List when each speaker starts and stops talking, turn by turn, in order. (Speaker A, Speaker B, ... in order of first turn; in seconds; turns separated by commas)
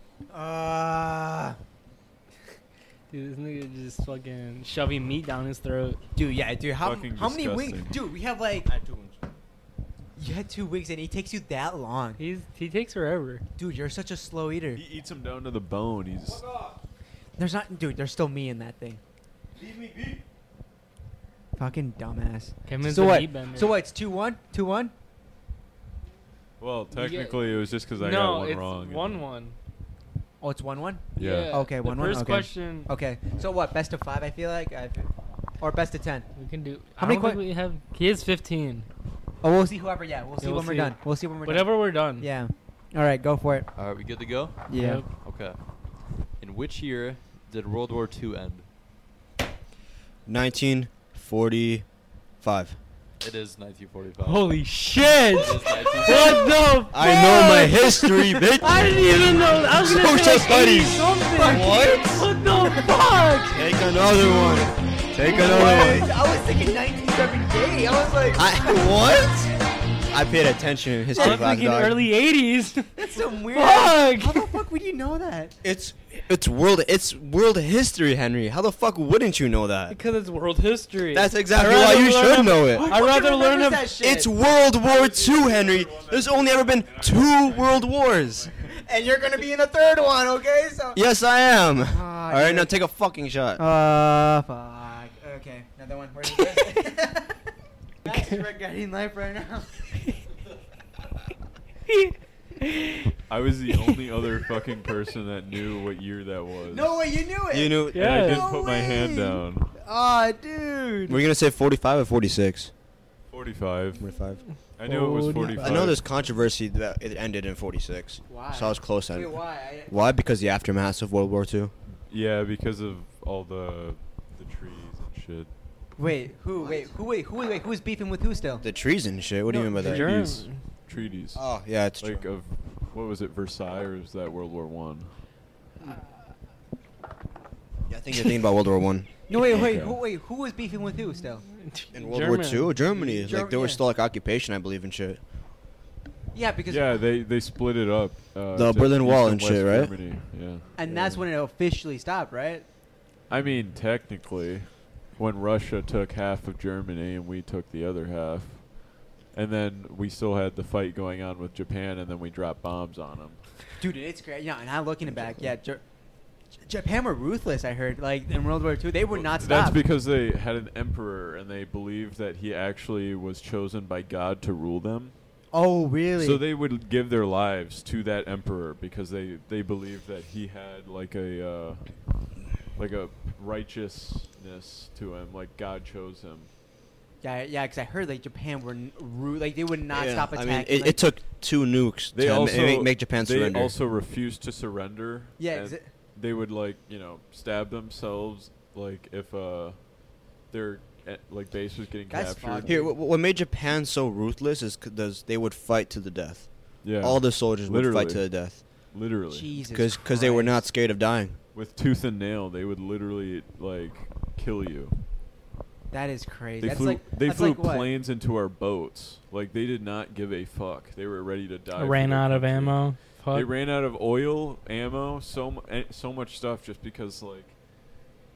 Speaker A: 0.3-1.6, Speaker B: 3.1-6.0, Speaker A: 6.2-8.7, Speaker C: 6.8-8.0, Speaker D: 8.7-9.2, Speaker A: 10.2-12.2, Speaker B: 12.2-13.4, Speaker A: 13.6-14.8, Speaker C: 14.7-16.4, Speaker D: 16.3-16.8, Speaker A: 17.4-19.0, Speaker D: 19.6-20.2, Speaker A: 21.6-24.9, Speaker B: 22.6-23.7, Speaker C: 26.6-29.2, Speaker B: 26.9-29.6, Speaker A: 30.4-35.1, Speaker C: 31.1-31.5, Speaker B: 31.2-32.9, Speaker A: 35.6-36.3, Speaker B: 36.4-38.9, Speaker A: 37.0-37.4, Speaker A: 39.4-43.7, Speaker B: 40.4-42.3, Speaker E: 43.7-45.6, Speaker A: 44.7-45.0, Speaker B: 44.7-45.1, Speaker E: 46.4-48.6, Speaker D: 50.2-51.9, Speaker D: 52.4-52.8, Speaker E: 53.2-54.7, Speaker B: 54.2-63.7, Speaker E: 55.3-56.6, Speaker D: 56.9-59.1, Speaker D: 59.6-62.3, Speaker A: 61.3-62.9, Speaker D: 63.5-66.1, Speaker B: 64.4-64.6, Speaker A: 65.2-68.8, Speaker B: 65.3-66.0, Speaker D: 68.3-69.5, Speaker D: 70.1-72.0, Speaker B: 71.1-74.6, Speaker A: 71.2-71.5, Speaker A: 73.0-75.5, Speaker D: 75.6-80.0, Speaker B: 79.9-84.0, Speaker D: 81.1-82.9, Speaker A: 82.5-84.3, Speaker D: 84.0-88.5, Speaker C: 84.7-88.8, Speaker A: 88.7-91.0, Speaker D: 91.0-93.6, Speaker A: 91.8-92.7, Speaker A: 93.5-97.4, Speaker A: 98.0-99.7, Speaker B: 101.9-103.2, Speaker C: 103.3-107.0, Speaker A: 106.7-111.2, Speaker D: 107.5-108.3, Speaker B: 107.9-108.5, Speaker C: 107.9-109.7, Speaker D: 111.1-112.7, Speaker C: 113.3-114.0, Speaker D: 114.0-114.4, Speaker C: 114.8-116.0, Speaker B: 114.8-115.9, Speaker D: 115.5-121.7, Speaker A: 118.3-119.9, Speaker C: 122.1-125.5, Speaker A: 126.0-128.7, Speaker D: 126.6-126.8, Speaker D: 128.6-130.2, Speaker B: 129.5-130.6, Speaker C: 129.8-135.1, Speaker D: 131.3-132.2, Speaker D: 137.9-139.1, Speaker A: 139.3-141.4, Speaker C: 139.4-140.0, Speaker B: 141.5-142.8, Speaker D: 141.9-145.2, Speaker A: 142.9-143.8, Speaker A: 146.3-147.0, Speaker C: 146.7-151.2, Speaker D: 148.5-150.0, Speaker A: 150.8-152.6, Speaker C: 153.3-163.4, Speaker A: 163.8-165.8, Speaker A: 166.7-169.8, Speaker C: 169.1-175.1, Speaker A: 175.5-176.4, Speaker C: 176.2-181.8, Speaker C: 182.8-186.5, Speaker A: 187.2-191.0, Speaker D: 189.9-193.7, Speaker C: 192.1-199.8, Speaker A: 195.4-195.9, Speaker C: 200.5-202.8, Speaker A: 202.1-202.9, Speaker D: 202.6-208.6, Speaker C: 206.8-209.5, Speaker A: 209.3-210.6, Speaker D: 209.7-211.4, Speaker C: 211.5-215.0, Speaker A: 215.9-217.9, Speaker C: 216.6-227.5, Speaker B: 221.8-223.5